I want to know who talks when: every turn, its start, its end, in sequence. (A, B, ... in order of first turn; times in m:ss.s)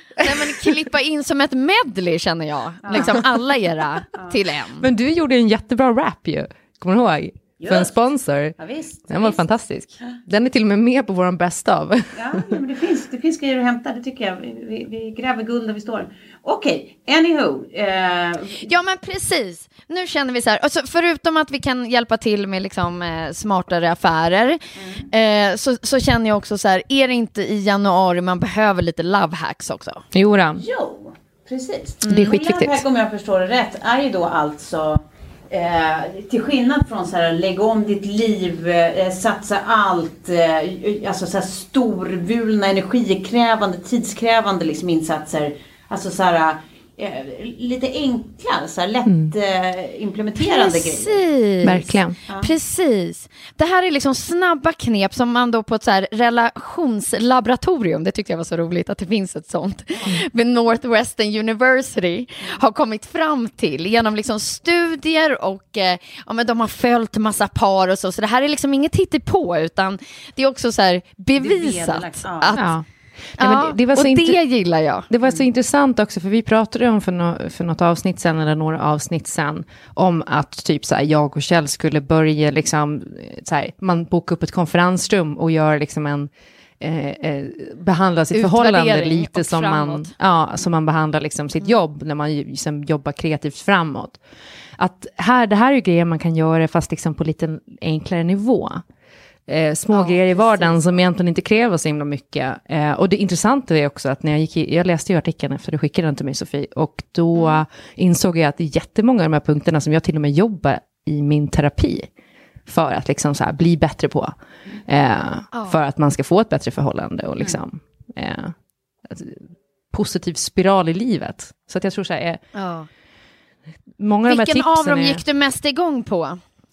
0:00.2-0:00.7 A
0:00.2-0:04.9 B
0:02.8-0:03.2 C
0:02.9-0:03.2 A
0:04.8-0:08.6 A
0:07.6-0:08.0 C
0:08.6-0:09.4 C
0:09.1-0:12.5 A
0:12.2-0:18.6 C
0:18.6-0:30.0 B
0:24.8-0:25.1 C
0:30.1-0:30.6 A
0:30.6-0:51.2 C
0:32.0-0:32.8 A
0:49.1-0:49.3 A
0:50.4-1:12.8 B
0:51.6-0:52.2 A
0:52.3-0:52.5 C
1:11.4-1:12.7 C
1:12.6-1:12.8 A
1:13.4-1:14.4 A
1:13.4-1:15.1 B
1:15.1-1:34.2 A
1:28.3-1:30.1 B
1:34.8-1:38.8 A
1:39.5-1:52.1 A
1:39.9-1:40.7 B
1:52.7-1:54.4 A
1:54.9-1:58.6 A
1:55.5-1:55.8 B
1:59.1-2:02.4 A
2:02.6-2:02.9 B
2:04.0-2:05.2 A
2:04.3-2:06.4 B